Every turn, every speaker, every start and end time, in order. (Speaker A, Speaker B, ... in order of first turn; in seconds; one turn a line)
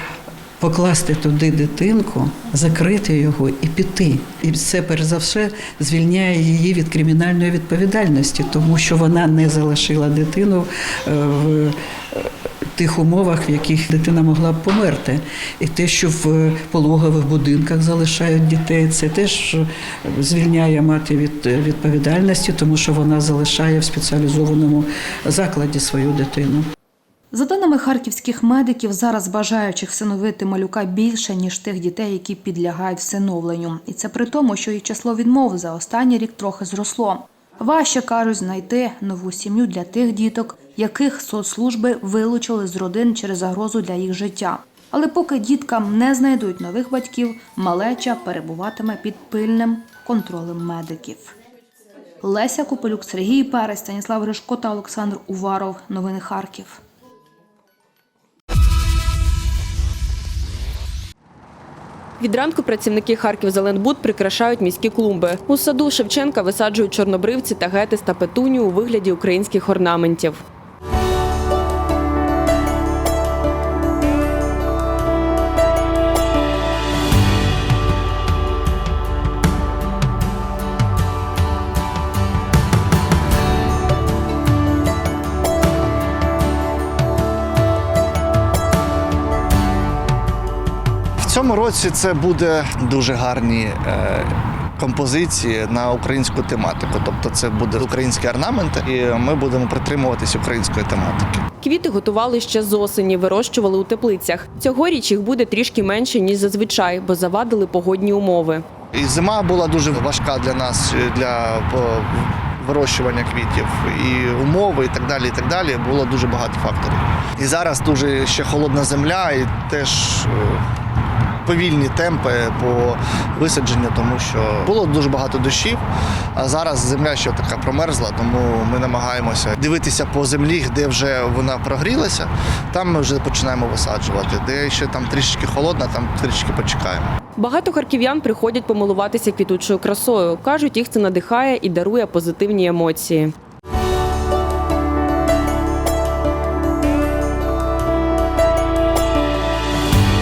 Speaker A: 0.6-26.7
Speaker B: 27.3-51.4
Speaker B: 52.2-56.8
Speaker C: 62.2-70.4
Speaker D: 91.2-101.4
Speaker C: 101.6-108.6
Speaker D: 108.9-120.6
Speaker D: 121.4-125.8
Speaker D: 126.4-137.1
Speaker C: 137.4-143.3